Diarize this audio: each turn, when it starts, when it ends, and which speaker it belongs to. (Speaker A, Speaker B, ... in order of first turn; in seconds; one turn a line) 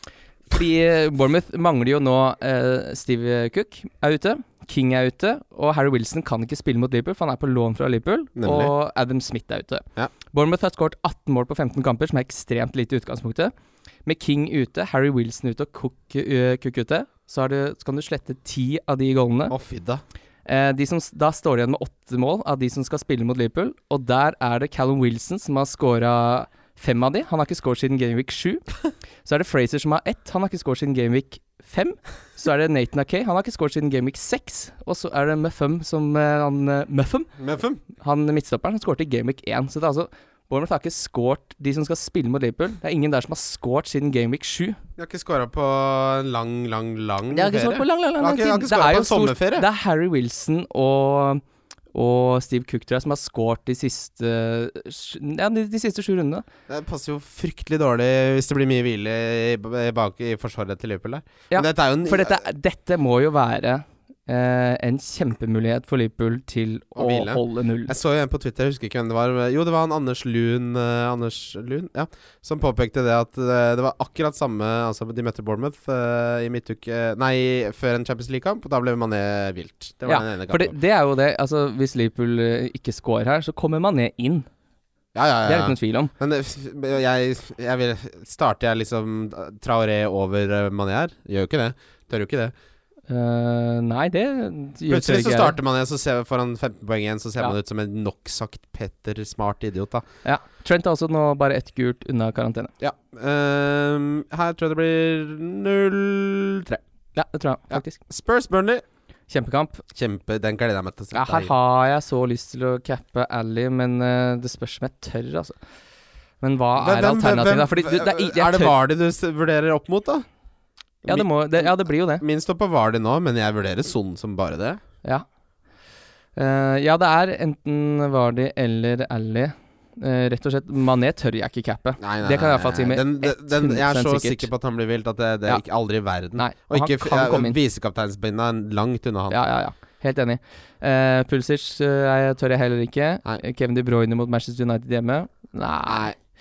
Speaker A: 0.5-13.5
Speaker B: 8.3-8.7
Speaker A: 14.0-19.5
Speaker B: 19.5-20.0
Speaker A: 20.4-28.6
Speaker A: 29.2-37.3
Speaker B: 37.4-37.8
Speaker A: 38.0-44.8
Speaker B: 45.0-49.6
Speaker A: 47.3-51.4
Speaker A: 51.9-56.4
Speaker B: 56.7-62.4
Speaker A: 61.5-67.9
Speaker B: 67.0-80.7
Speaker A: 80.0-84.5
Speaker B: 85.1-92.5
Speaker A: 85.4-86.1
Speaker A: 93.1-95.6
Speaker B: 94.9-100.0
Speaker A: 100.2-102.7
Speaker B: 102.8-106.8
Speaker A: 107.1-108.0
Speaker B: 107.7-108.8
Speaker A: 109.3-109.8
Speaker B: 109.9-111.5
Speaker A: 111.1-115.6
Speaker A: 116.4-118.8
Speaker B: 116.8-120.2
Speaker B: 121.0-124.8
Speaker A: 121.1-122.2
Speaker A: 126.3-134.5
Speaker B: 132.0-139.5
Speaker A: 136.4-137.6
Speaker A: 139.3-146.1
Speaker B: 145.8-146.1